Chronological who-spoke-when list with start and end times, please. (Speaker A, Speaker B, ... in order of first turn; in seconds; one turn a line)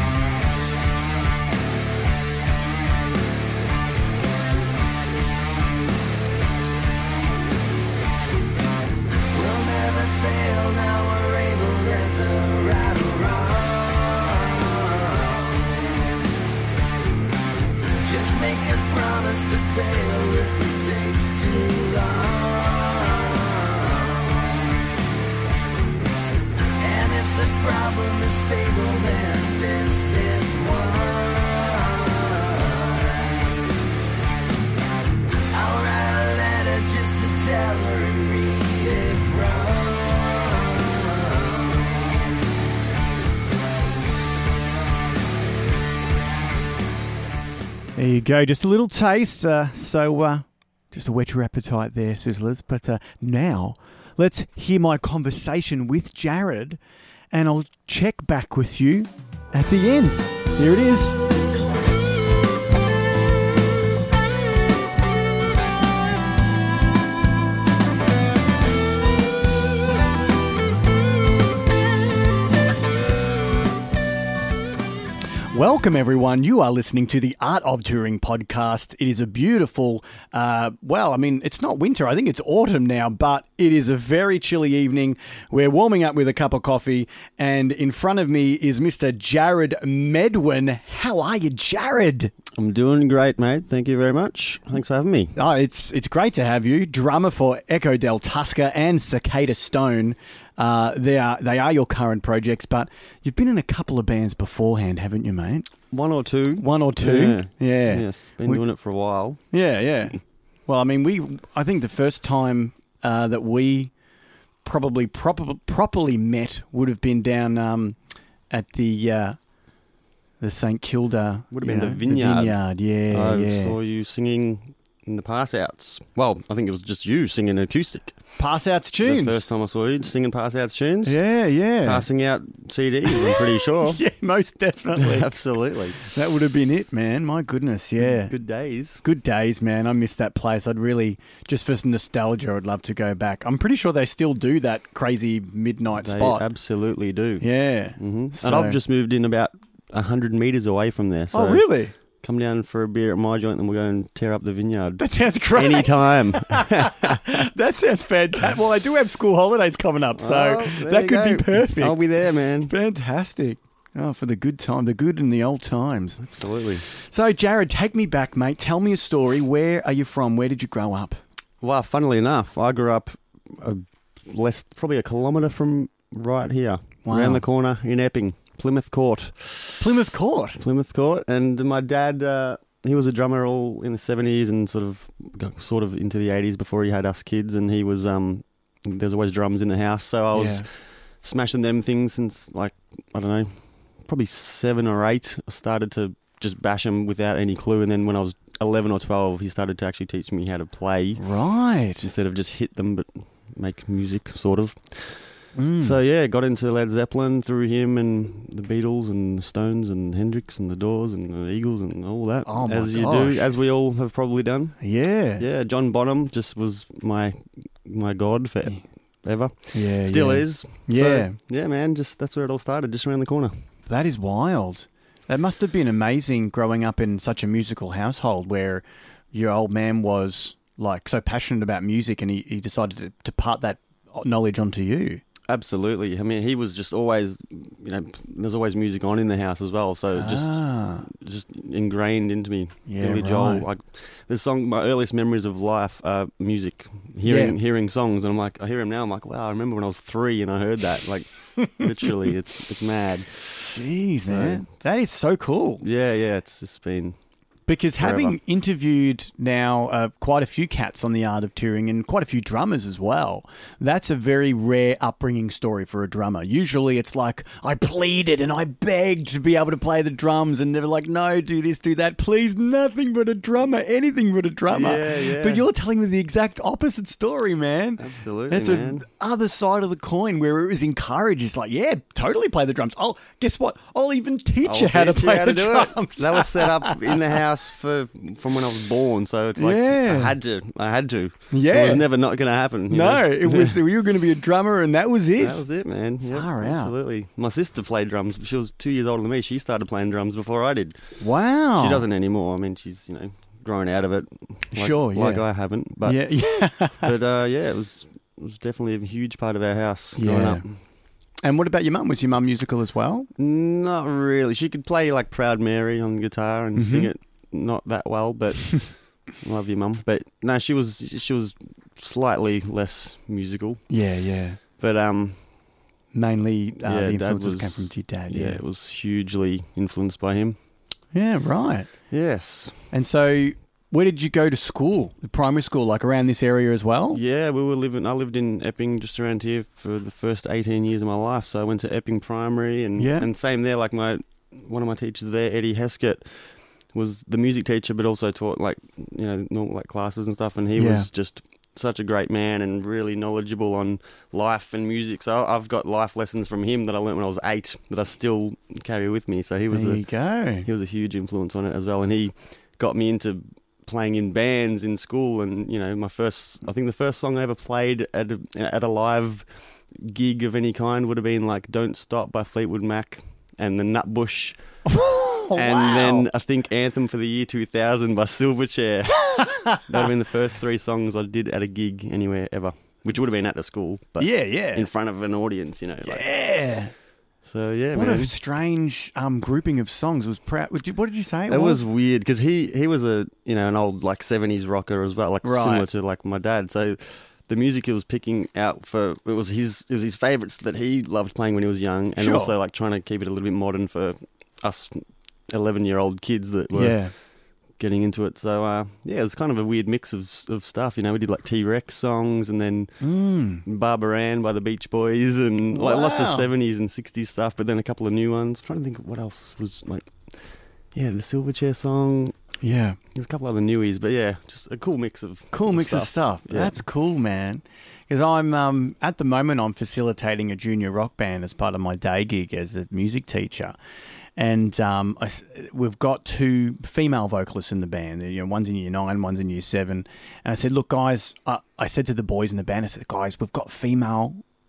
Speaker A: 9.3-15.9
Speaker A: 18.0-24.5
Speaker A: 26.8-33.5
Speaker A: 35.5-41.8
Speaker B: 48.0-56.8
Speaker B: 57.3-61.2
Speaker B: 75.5-92.3
Speaker C: 92.6-95.3
Speaker B: 95.3-105.7
Speaker C: 105.9-109.4
Speaker B: 106.6-108.6
Speaker B: 109.5-113.9
Speaker B: 114.6-118.0
Speaker B: 118.5-119.4
Speaker B: 120.4-123.8
Speaker C: 121.5-128.3
Speaker B: 128.4-129.4
Speaker C: 129.0-131.2
Speaker B: 131.0-132.0
Speaker C: 131.8-134.0
Speaker B: 133.1-135.3
Speaker C: 135.0-136.1
Speaker B: 136.0-138.3
Speaker C: 138.0-139.0
Speaker B: 139.0-146.4
Speaker C: 146.0-157.4
Speaker B: 147.4-148.8
Speaker B: 151.3-151.9
Speaker B: 155.0-156.7
Speaker B: 157.4-162.0
Speaker C: 160.2-162.7
Speaker B: 162.7-166.2
Speaker C: 166.2-166.8
Speaker B: 167.0-171.2
Speaker C: 171.6-179.9
Speaker B: 177.0-177.4
Speaker B: 179.8-180.6
Speaker C: 180.6-201.2
Speaker B: 190.3-190.7
Speaker B: 201.2-202.1
Speaker C: 202.0-223.5
Speaker B: 205.5-205.9
Speaker B: 212.4-213.5
Speaker B: 214.8-215.4
Speaker B: 219.7-221.3
Speaker B: 223.9-235.2
Speaker C: 235.5-254.7
Speaker B: 240.1-241.1
Speaker B: 242.9-243.6
Speaker B: 247.2-247.6
Speaker B: 253.7-255.8
Speaker C: 255.8-257.1
Speaker B: 257.7-286.9
Speaker C: 258.0-258.4
Speaker C: 274.7-275.6
Speaker C: 278.0-279.1
Speaker C: 284.6-293.8
Speaker B: 289.6-290.3
Speaker B: 291.5-292.1
Speaker B: 292.9-295.7
Speaker C: 295.4-301.2
Speaker B: 296.3-296.9
Speaker B: 301.2-302.0
Speaker C: 301.8-310.8
Speaker B: 304.7-307.1
Speaker B: 310.2-310.9
Speaker B: 311.4-313.3
Speaker C: 313.4-323.9
Speaker B: 316.8-317.1
Speaker B: 323.9-324.6
Speaker C: 324.8-325.8
Speaker B: 326.1-328.6
Speaker C: 326.8-330.6
Speaker B: 331.1-332.1
Speaker C: 332.1-332.8
Speaker B: 332.9-337.2
Speaker C: 337.1-374.9
Speaker B: 343.0-343.3
Speaker B: 350.8-351.1
Speaker B: 359.7-360.7
Speaker B: 374.9-376.3
Speaker C: 375.5-386.5
Speaker B: 379.3-379.8
Speaker B: 384.2-384.9
Speaker B: 386.0-386.9
Speaker C: 387.4-388.3
Speaker B: 387.9-391.8
Speaker C: 391.5-413.1
Speaker B: 395.4-395.9
Speaker B: 402.2-402.5
Speaker B: 406.7-407.1
Speaker B: 413.0-413.6
Speaker C: 413.6-422.3
Speaker B: 415.7-416.4
Speaker B: 422.6-423.0
Speaker C: 423.1-426.8
Speaker B: 425.5-433.8
Speaker B: 434.4-444.4